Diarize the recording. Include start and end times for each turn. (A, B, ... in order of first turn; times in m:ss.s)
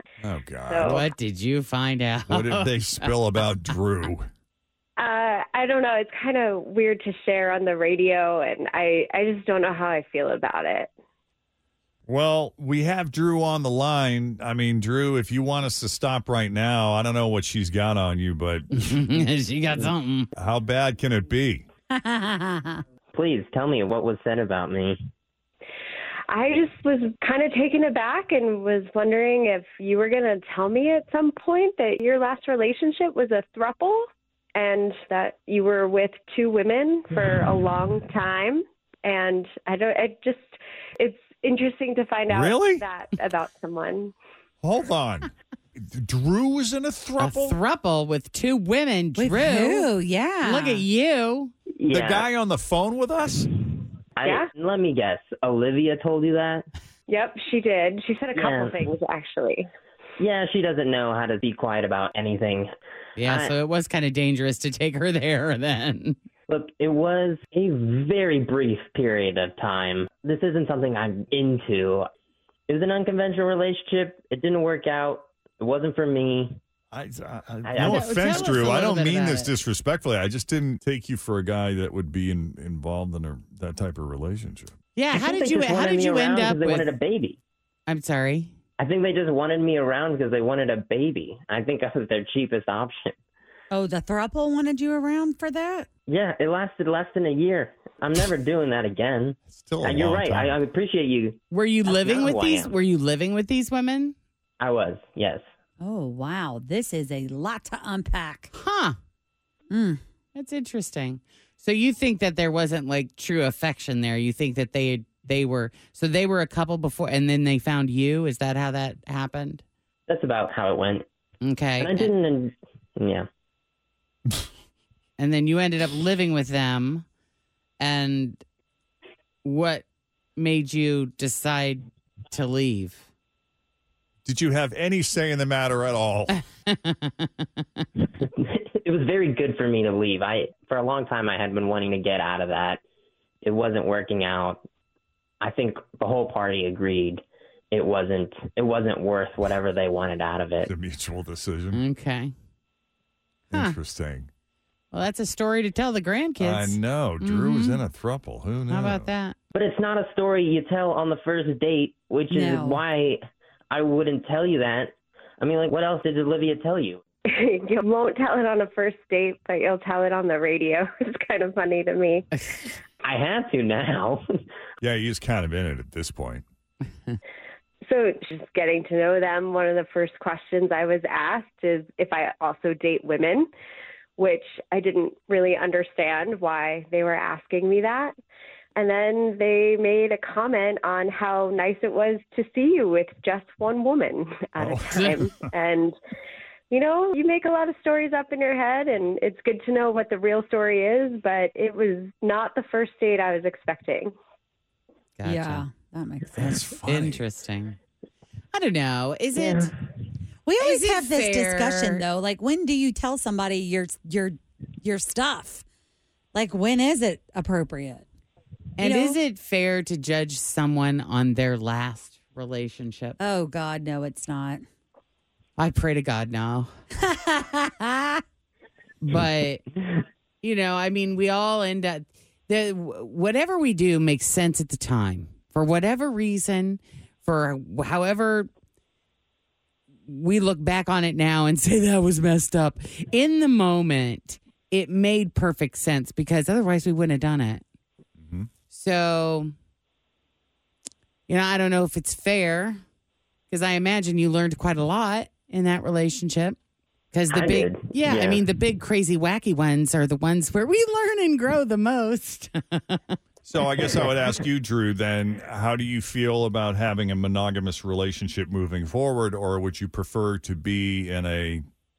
0:00.2-0:01.0 A
0:00.7-0:01.0 B
0:00.8-0:03.1 C
0:02.3-0:04.3 A
0:05.0-0:10.9 B
0:12.0-0:19.0 A
0:18.7-0:20.3 C
0:20.3-0:21.6 A
0:22.0-0:22.8 D
0:23.1-0:25.0 E
0:26.3-0:44.1 B
0:42.3-0:42.8 A
0:44.6-0:47.6 A
0:47.2-0:51.5 C
0:49.2-0:50.8 D
0:51.8-0:52.2 E
0:51.9-0:53.5 A
0:54.2-0:56.6 E
0:57.1-0:59.7 B
0:58.3-0:58.9 E
1:00.2-1:03.5 E
1:03.2-1:06.2 C
1:06.5-1:12.1 E
1:12.7-1:16.6 E
1:16.9-1:24.7 A
1:17.6-1:18.2 E
1:17.8-1:19.5 C
1:25.0-1:26.9 C
1:25.1-1:27.4 E
1:27.9-1:28.5 C
1:28.8-1:33.2 E
1:33.7-1:35.9 D
1:36.1-1:42.7 E
1:39.5-1:40.6 A
1:41.5-1:44.1 C
1:44.6-1:45.4 E
1:45.8-1:48.5 D
1:48.5-1:49.0 C
1:49.7-1:50.0 D
1:50.3-1:59.6 C
2:00.1-2:01.0 E
2:01.4-2:02.1 C
2:01.8-2:03.3 E
2:05.2-2:07.0 C
2:07.8-2:08.4 C
2:09.4-2:09.8 C
2:10.4-2:13.1 C
2:14.2-2:16.4 A
2:16.3-2:17.9 C
2:18.4-2:22.8 E
2:23.4-2:24.6 E
2:25.4-2:30.7 E
2:30.6-2:31.8 A
2:31.7-2:32.3 C
2:33.5-2:34.3 A
2:33.5-2:33.8 C
2:34.9-2:37.8 C
2:36.4-2:39.1 A
2:38.7-2:39.4 C
2:39.5-2:47.0 E
2:42.3-2:42.8 D
2:47.3-2:52.2 B
2:52.4-2:52.7 C
2:53.0-2:54.2 E
2:54.8-2:56.4 A
2:57.8-3:03.5 B
3:04.2-3:08.1 B
3:08.8-3:16.0 B
3:14.6-3:15.5 A
3:16.7-3:24.1 B
3:25.2-3:25.7 C
3:25.2-3:26.8 D
3:26.4-3:27.8 C
3:26.4-3:27.2 A
3:28.5-3:29.7 C
3:29.4-3:29.7 E
3:30.4-3:35.6 D
3:30.6-3:32.0 C
3:36.3-3:38.0 D
3:38.8-3:43.2 C
3:38.8-3:39.2 D
3:43.2-3:44.6 D
3:45.6-3:46.7 C
3:47.0-3:48.2 D
3:49.0-3:49.6 C
3:50.4-3:58.5 C
4:00.1-4:07.6 C
4:08.2-4:08.5 A
4:08.7-4:09.5 C
4:11.3-4:12.8 C
4:13.5-4:16.6 C
4:17.1-4:23.2 C
4:17.3-4:18.4 E
4:23.4-4:31.6 A